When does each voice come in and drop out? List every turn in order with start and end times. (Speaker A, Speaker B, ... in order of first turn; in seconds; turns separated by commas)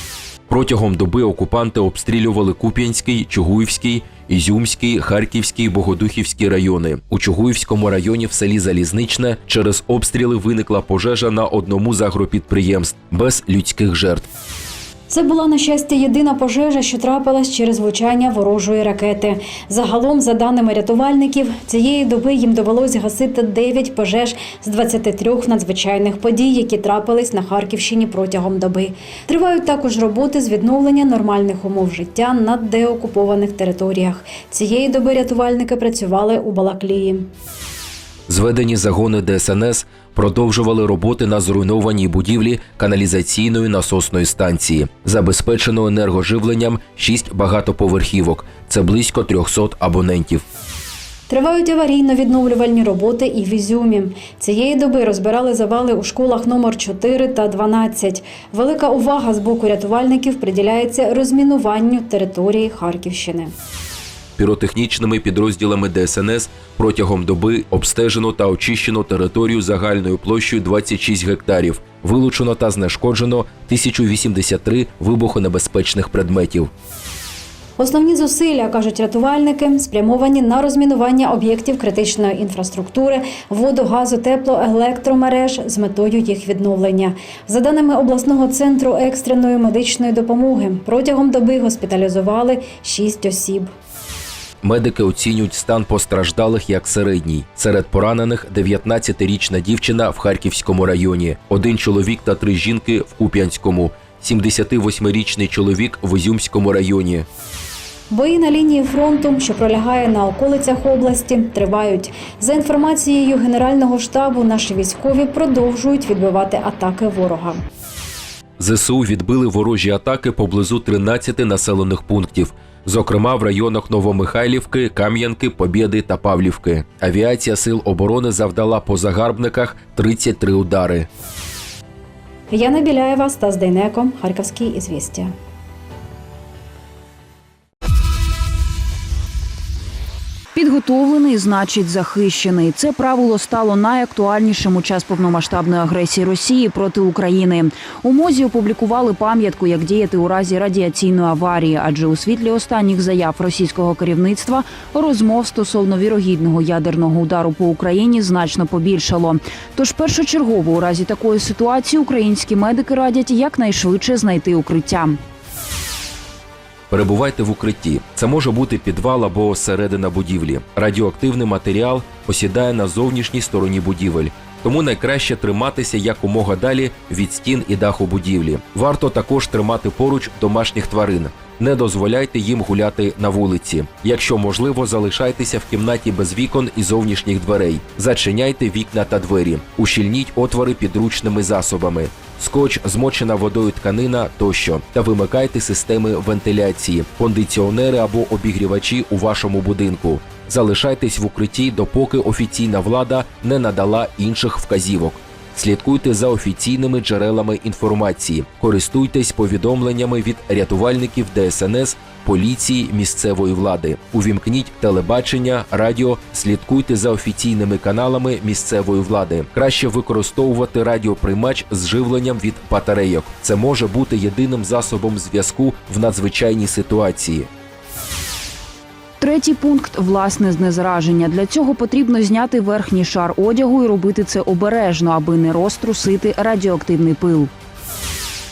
Speaker A: 0.5-14.3, Speaker B: 15.1-37.3, Speaker A: 38.3-50.5, Speaker B: 51.3-63.5, Speaker A: 64.4-76.7, Speaker B: 77.8-93.8, Speaker A: 94.6-107.3, Speaker B: 108.1-117.6, Speaker A: 118.6-131.1, Speaker B: 132.5-135.3, Speaker C: 140.6-165.2, Speaker A: 166.9-227.5, Speaker C: 229.2-237.5